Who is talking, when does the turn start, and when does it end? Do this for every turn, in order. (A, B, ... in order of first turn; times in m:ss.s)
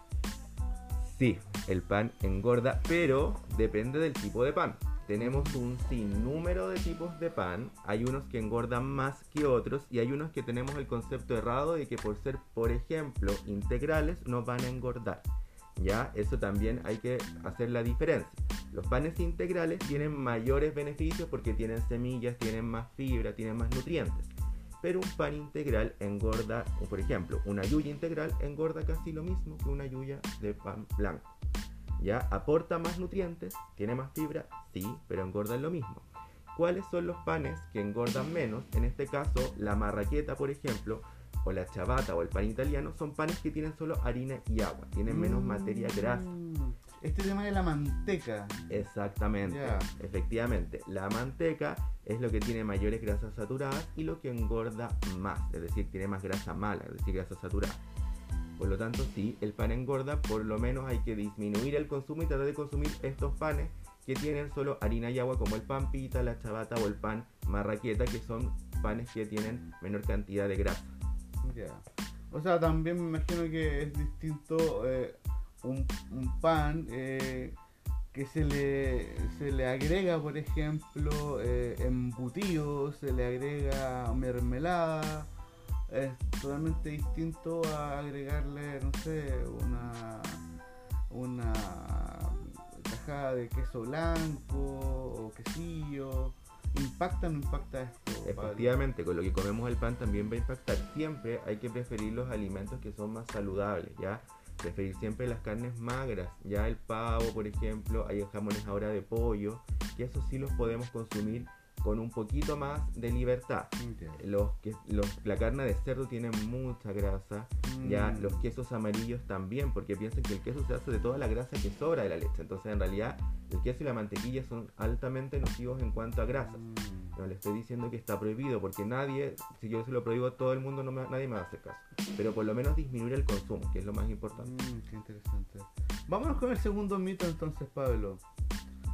0:01.0-0:31.3 A
0:05.2-0:05.6 B
0:32.0-0:46.3 A
0:45.1-0:48.7 B
0:48.7-0:57.8 A
0:49.4-0:49.9 B
0:58.6-1:11.0 A
1:11.4-1:17.6 B
1:18.1-1:25.3 B
1:25.9-1:30.4 B
1:31.1-1:38.7 B
1:38.2-2:06.6 A
1:53.8-1:54.2 B
1:57.6-1:58.4 B
2:06.4-2:07.2 B
2:07.2-2:14.5 A
2:14.3-2:18.2 B